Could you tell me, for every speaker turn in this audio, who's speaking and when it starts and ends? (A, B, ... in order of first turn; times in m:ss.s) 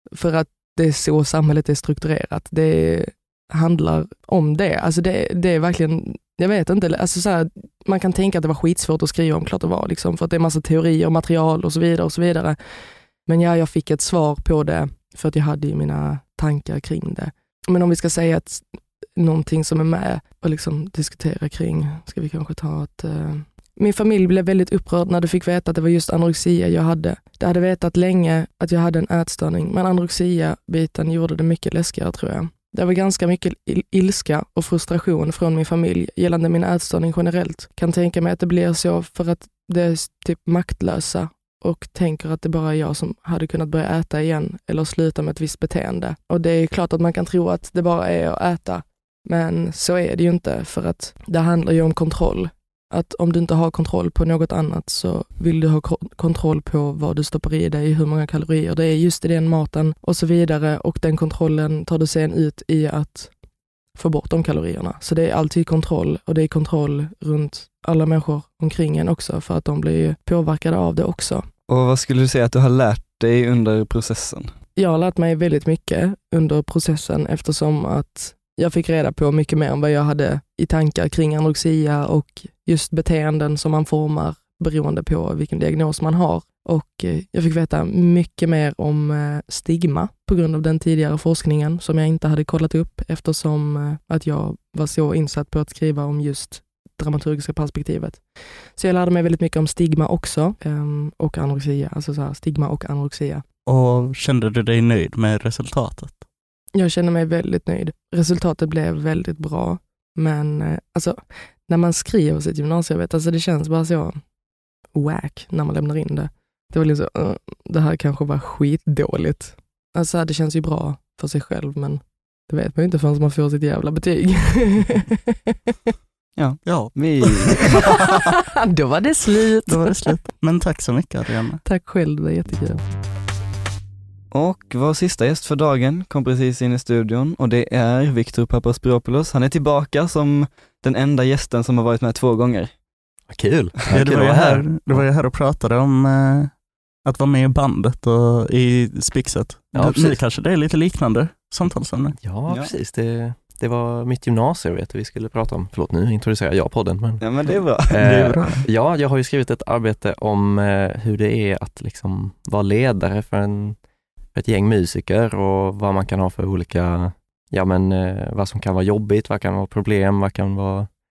0:00.1-1:03.3 A
1:04.0-1:11.5 A
1:11.7-1:14.5 B
1:14.8-1:43.4 A
1:43.7-1:46.2 C
1:46.8-1:54.2 A
1:54.9-2:05.2 A
2:06.4-2:07.8 B
2:06.6-2:07.7 C
2:08.0-2:10.2 A
2:09.7-2:11.6 C
2:11.6-2:13.0 A
2:14.3-2:22.7 B
2:23.3-2:25.0 D
2:23.9-2:32.2 C
2:29.7-2:30.2 D
2:32.2-2:43.8 D
2:37.2-2:38.5 B
2:37.7-2:38.6 C
2:44.4-2:50.9 D